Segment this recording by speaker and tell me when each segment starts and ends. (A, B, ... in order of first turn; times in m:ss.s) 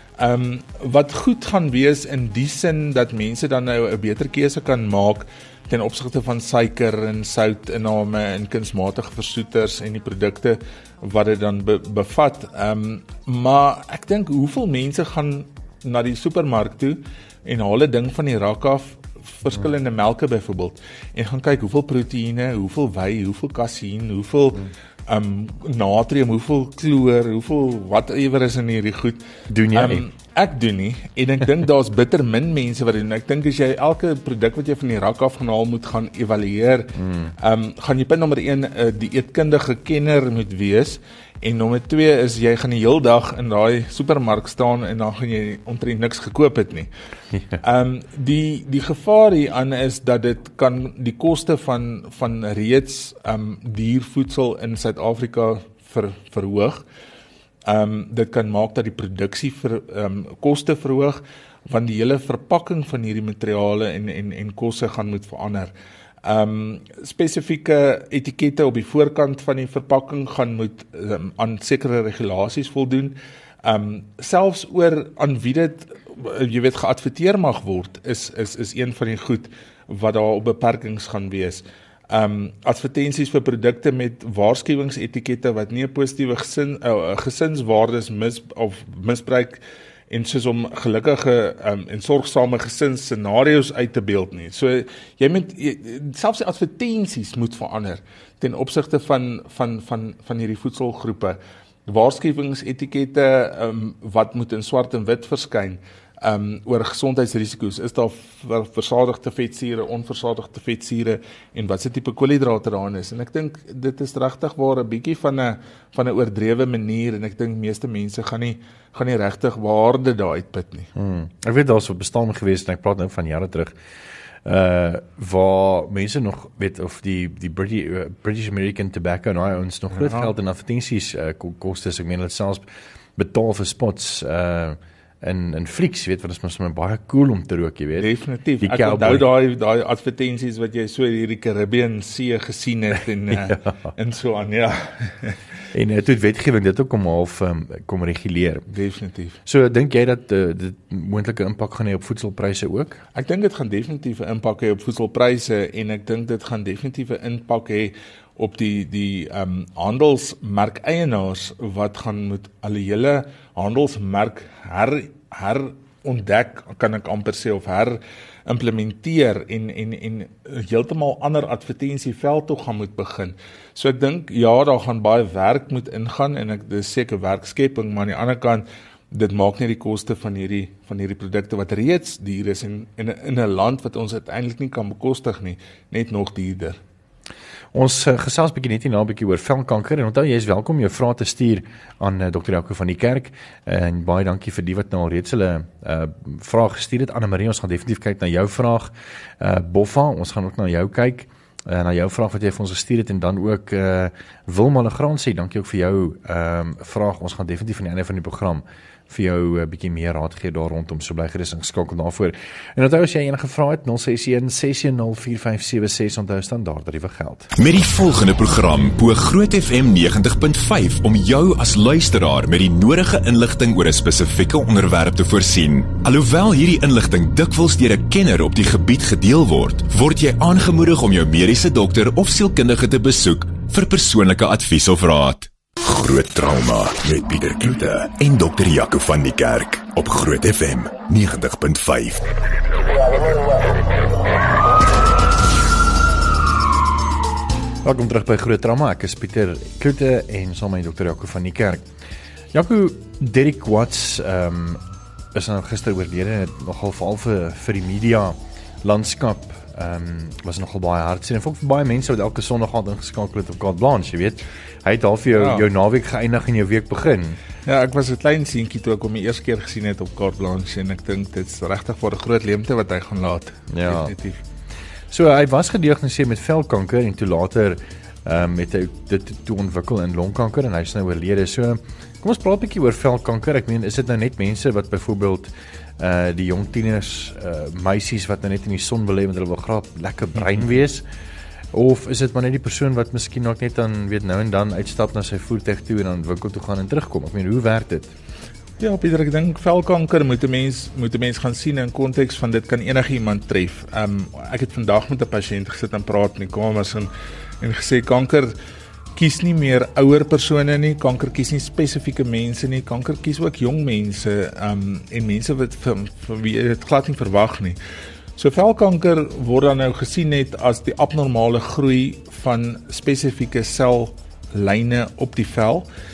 0:00.2-0:46.9 A
0:29.5-0:30.1 B
0:37.0-0:37.3 B
0:47.6-0:56.8 A
0:57.6-1:05.7 A
1:06.2-2:00.9 A
2:00.9-2:03.7 B
2:04.4-2:12.6 B
2:09.9-2:10.3 A
2:13.2-2:18.1 B
2:18.0-2:25.4 A
2:18.6-2:19.2 B
2:25.7-2:28.7 B
2:28.7-2:29.4 A
2:29.4-2:33.0 B
2:33.1-3:06.8 A
3:07.7-3:37.5 B
3:37.6-4:02.2 C
4:07.8-4:11.8 B
4:12.5-4:14.8 B
4:15.3-4:27.4 B
4:25.4-4:25.7 A
4:27.6-4:34.4 A
4:33.7-4:34.1 B
4:35.1-4:51.0 B
4:51.7-4:58.1 B
4:58.8-5:07.1 A
5:07.6-5:08.5 A
5:09.2-5:17.8 A
5:18.4-5:25.9 A